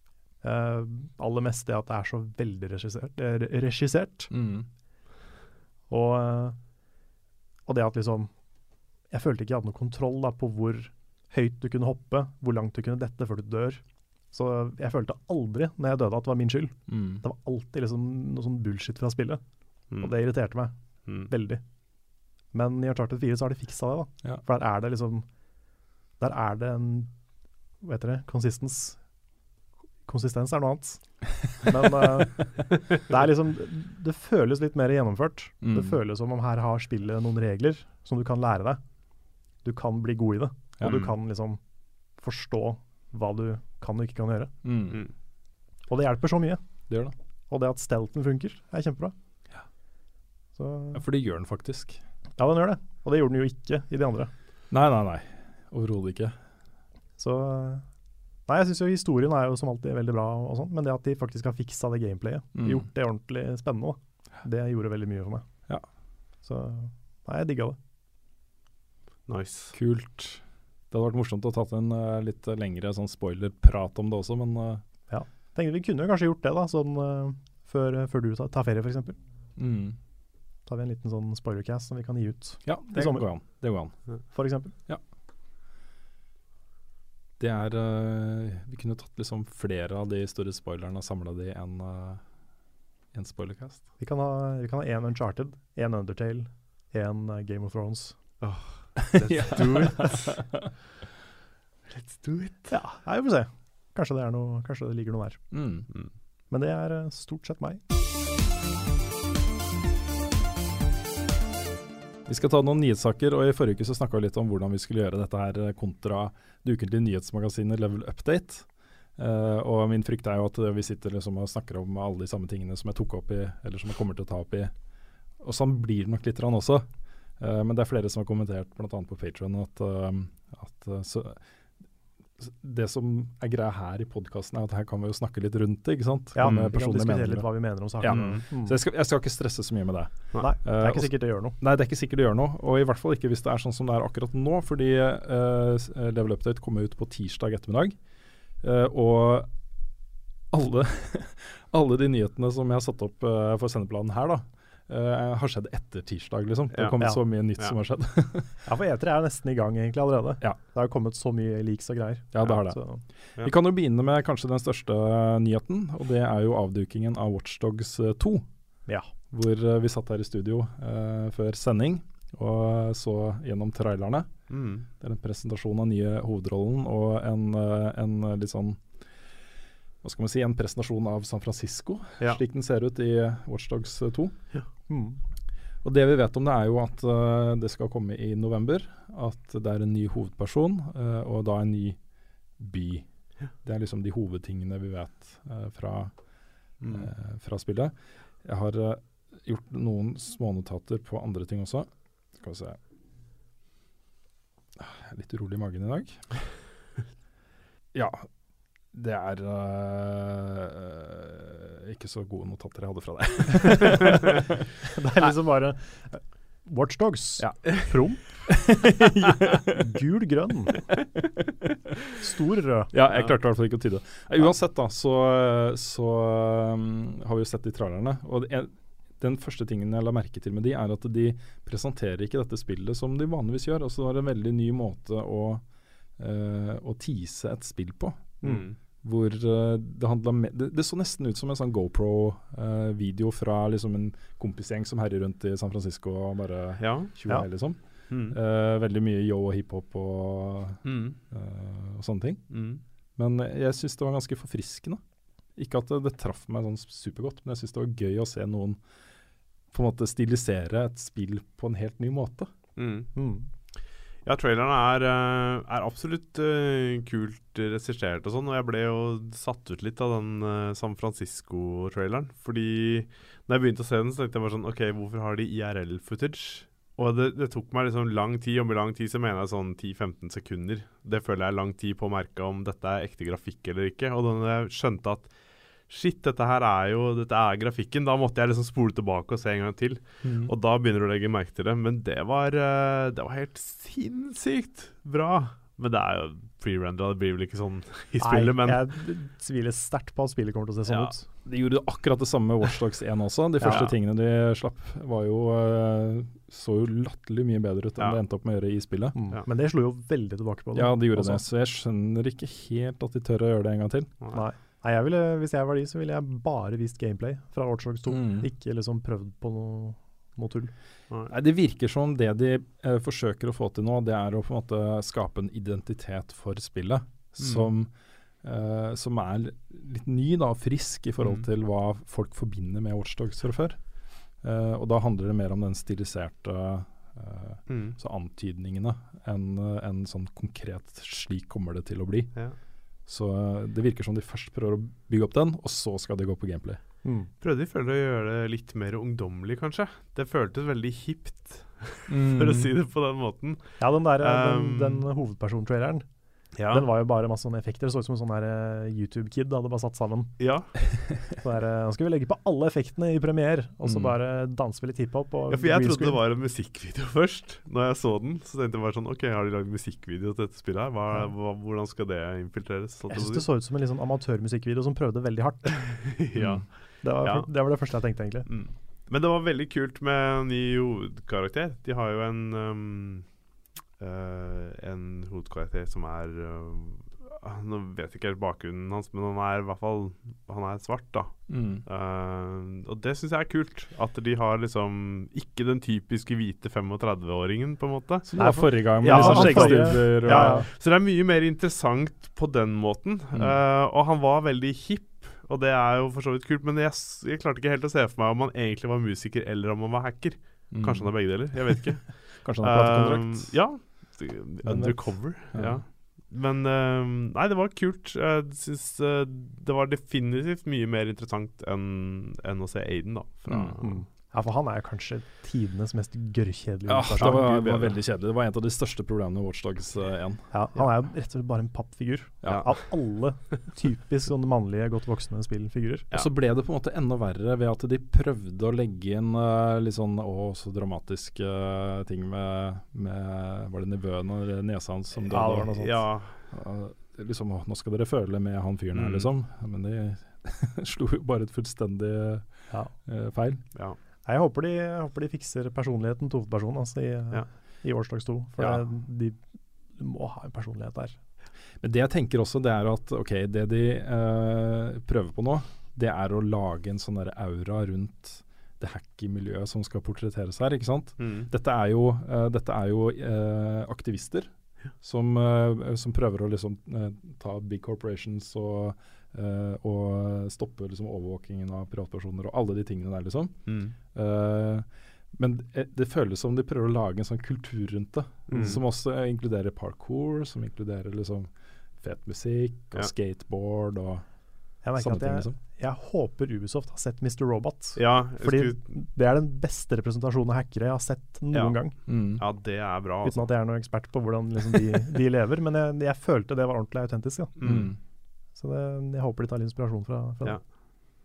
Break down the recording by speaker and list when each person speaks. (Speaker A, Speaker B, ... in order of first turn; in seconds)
Speaker A: 0.4-4.3, 5.9-6.6, 7.7-8.3, 9.1-19.4, 20.0-21.6, 22.5-25.3, 26.2-27.1, 27.8-29.0, 30.1-38.8, 39.6-41.6, 42.2-44.5, 45.9-46.6, 47.5-49.1, 50.5-51.0, 52.4-54.3, 57.2-57.9, 58.5-65.5, 66.4-67.8, 75.1-79.2, 80.7-83.3, 84.3-84.7, 94.0-98.2, 102.7-105.5, 106.5-107.8, 136.3-138.8, 140.4-141.6, 158.6-163.0, 184.9-185.2, 214.9-218.8, 219.7-220.8, 222.2-222.9, 263.1-263.5, 298.2-301.3, 303.6-303.9, 309.1-311.4, 314.3-320.7, 347.0-347.3, 353.8-360.4, 361.4-366.2, 373.1-376.1, 377.0-378.5, 398.4-400.7, 423.8-428.0, 430.5-436.1, 445.3-446.0, 452.7-452.9, 454.2-459.4, 459.9-461.2, 488.5-488.8, 494.8-502.0, 503.2-507.5, 508.5-510.6
Speaker B: 4.3-4.7, 16.9-17.2, 35.6-36.0, 40.8-41.1, 44.6-45.0, 46.9-47.1, 50.9-52.0, 54.7-56.4, 62.5-62.9, 69.7-74.8, 79.6-80.0, 82.6-84.1, 87.4-92.2, 93.1-93.8, 99.1-100.7, 105.5-105.9, 112.2-124.7, 125.4-131.4, 132.4-148.0, 148.6-149.5, 150.5-158.6, 162.3-168.5, 169.3-174.4, 175.0-178.9, 180.0-184.4, 185.8-192.0, 192.6-196.2, 196.8-202.8, 204.8-206.3, 207.9-208.3, 208.9-214.6, 217.4-219.8, 221.2-221.7, 222.9-235.6, 236.2-252.5, 253.2-255.0, 255.6-258.8, 259.7-262.5, 290.2-290.5, 301.4-309.3, 310.7-314.1, 318.1-318.5, 321.3-342.4, 343.0-346.8, 352.1-352.7, 363.8-364.1, 376.3-376.7, 391.5-391.8, 398.3-400.7, 403.3-403.6, 410.7-411.1, 412.4-413.6, 414.6-415.8, 423.5-423.8, 426.9-430.5, 432.4-432.7, 436.1-445.7, 446.4-453.6, 458.6-458.8, 461.8-495.6, 502.1-502.4, 507.6-508.0
Speaker C: 69.3-69.7, 98.4-100.6, 101.9-102.7, 136.4-136.7, 138.0-138.4, 156.7-157.0, 174.5-174.9, 196.8-197.1, 238.4-238.8, 246.8-247.2, 248.1-248.4, 250.8-251.2, 252.5-252.8, 262.8-263.1, 264.2-298.9, 300.9-301.1, 327.4-327.7, 331.2-331.5, 337.7-338.0, 347.4-355.1, 356.5-356.9, 360.4-360.8, 365.5-373.5, 375.9-377.6, 378.4-383.4, 384.0-424.0, 432.5-432.8, 445.5-446.4, 448.9-449.3, 471.2-471.5, 483.6-483.9, 488.5-488.8, 497.9-498.8, 501.5-503.5, 507.6-507.9